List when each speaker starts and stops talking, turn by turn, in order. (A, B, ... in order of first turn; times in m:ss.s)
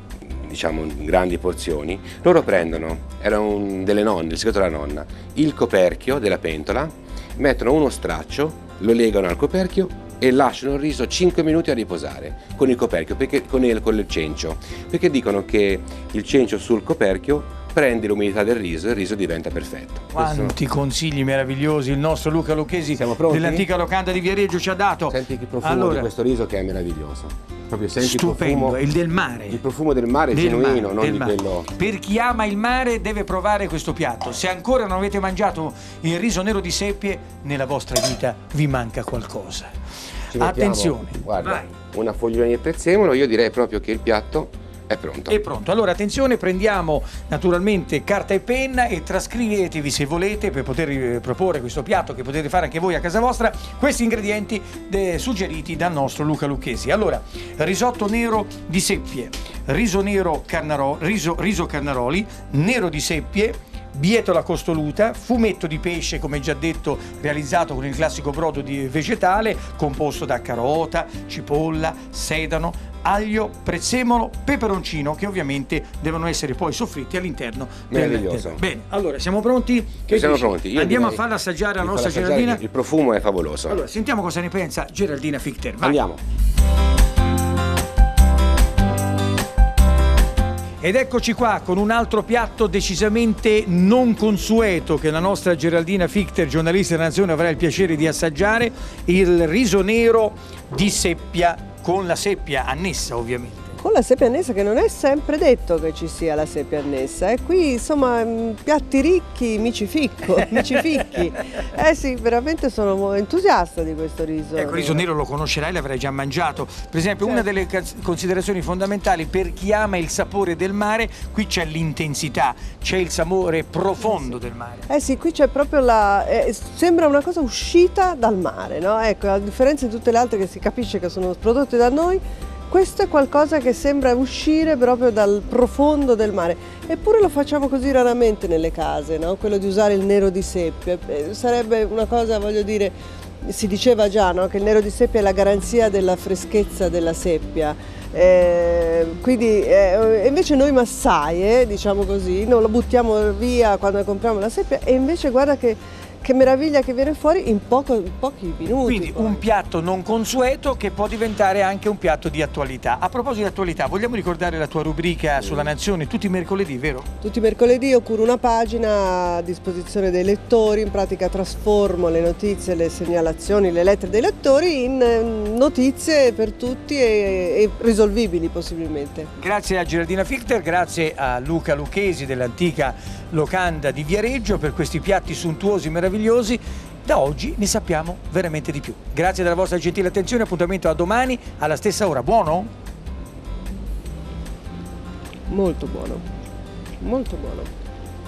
0:00.3-0:20.5 A
0:20.1-0:26.1 B
0:23.0-0:23.7 A
0:25.1-0:28.8 A
0:28.0-0:29.6 B
0:29.5-0:31.7 A
0:30.3-0:39.7 B
0:40.3-0:45.4 A
0:40.4-0:41.7 B
0:45.3-1:22.6 B
1:17.9-1:18.6 A
1:20.1-1:21.2 A
1:21.8-1:23.8 A
1:23.7-1:26.0 B
1:25.8-1:26.2 A
1:30.8-1:43.8 B
1:43.8-1:55.0 C
1:54.6-2:04.8 B
2:04.0-2:04.3 C
2:04.9-2:39.4 C
2:38.8-2:47.1 B
2:47.2-2:59.3 C
2:59.4-3:12.7 B
3:15.5-3:16.2 C
3:17.0-3:17.7 C